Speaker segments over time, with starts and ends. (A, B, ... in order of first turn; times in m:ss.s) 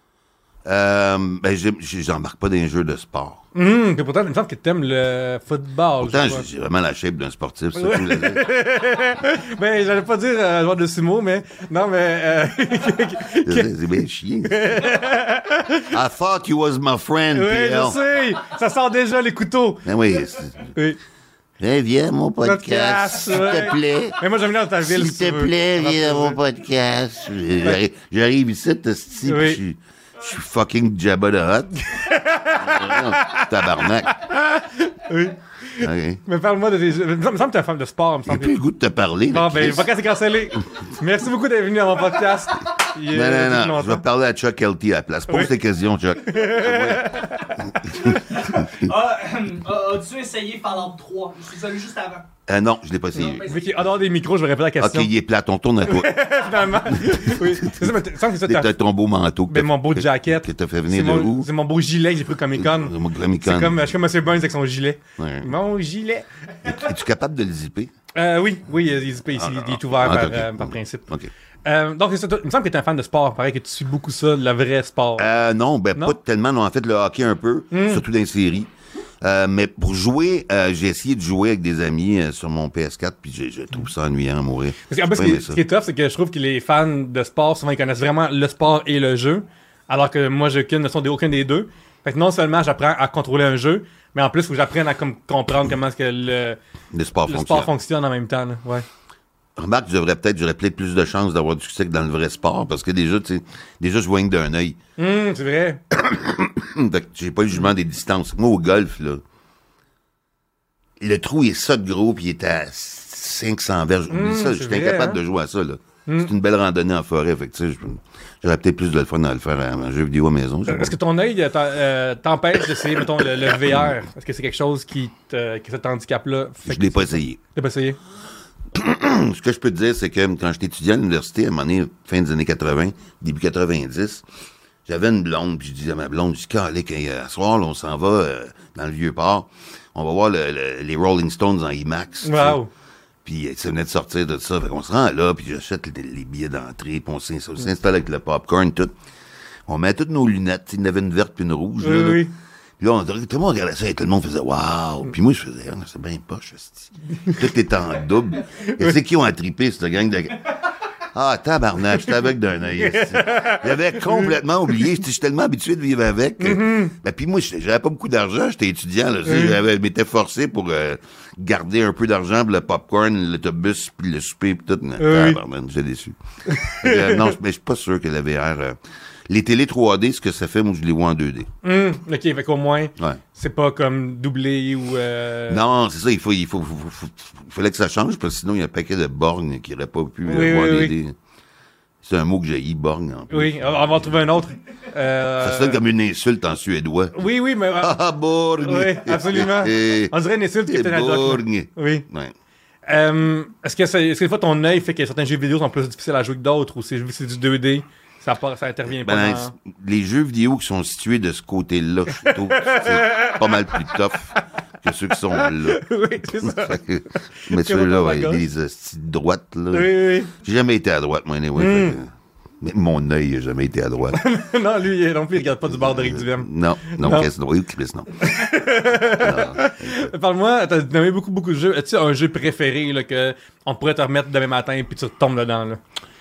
0:00.6-0:03.4 A
0:03.5-0:06.4 B
0:06.0-0:08.4 A
0:07.8-0:13.7 B
0:13.4-0:14.9 A
0:14.4-0:15.9 B
0:15.9-0:18.0 A
0:17.3-0:19.8 B
0:19.8-0:20.7 A
0:21.6-0:24.2 A
0:22.4-0:26.4 B
0:24.8-0:31.8 A
0:29.2-0:29.6 B
0:31.8-0:38.6 B
0:32.4-0:34.1 A
0:35.8-0:36.2 A
0:38.3-0:39.9 A
0:39.3-0:44.0 B
0:43.1-0:48.7 A
0:46.2-0:48.2 B
0:48.2-0:52.3 C
0:52.5-0:53.5 A
0:53.2-0:53.6 C
0:53.4-0:55.1 B
0:54.8-0:56.2 A
0:55.8-0:58.7 B
0:57.0-0:57.9 A
0:58.4-1:01.5 A
0:59.5-1:06.3 B
1:02.6-1:03.8 A
1:05.2-1:05.5 A
1:06.6-1:07.9 A
1:08.2-1:11.0 B
1:09.4-1:11.3 A
1:11.6-1:15.3 B
1:15.2-1:18.7 A
1:17.7-1:18.0 B
1:19.2-1:25.6 A
1:24.9-1:36.6 B
1:36.9-1:37.7 A
1:37.3-1:38.8 B
1:39.6-1:44.8 A
1:45.0-1:45.8 B
1:45.9-1:49.2 A
1:51.0-2:01.0 A
1:54.1-1:55.2 B
1:56.0-1:56.3 B
2:00.7-2:08.0 B
2:06.6-2:07.4 A
2:08.7-2:14.2 A
2:14.8-2:22.6 A
2:22.2-2:22.7 B
2:23.2-2:28.9 A
2:29.7-2:32.3 A
2:31.8-2:32.3 B
2:32.8-2:40.5 A
2:38.5-2:38.9 B
2:41.1-2:58.8 A
2:42.8-2:44.3 B
2:46.4-2:46.9 B
2:49.2-2:49.6 B
2:55.0-2:55.4 B
2:56.5-2:57.3 B
2:59.3-3:01.5 A
3:01.6-3:05.6 B
3:05.5-3:11.1 A
3:10.2-3:10.9 B
3:12.0-3:14.0 A
3:13.3-3:15.8 B
3:15.4-3:17.2 A
3:17.1-3:18.0 B
3:17.8-3:22.3 A
3:18.6-3:22.0 B
3:22.8-3:29.5 B
3:29.0-3:35.8 A
3:32.1-3:33.9 B
3:35.3-3:36.8 B
3:36.4-3:42.0 A
3:37.4-3:38.4 B
3:39.7-3:40.3 B
3:41.6-3:42.0 B
3:42.6-3:44.2 A
3:44.1-3:47.3 B
3:45.7-3:48.3 A
3:48.2-3:55.8 B
3:49.1-3:50.1 A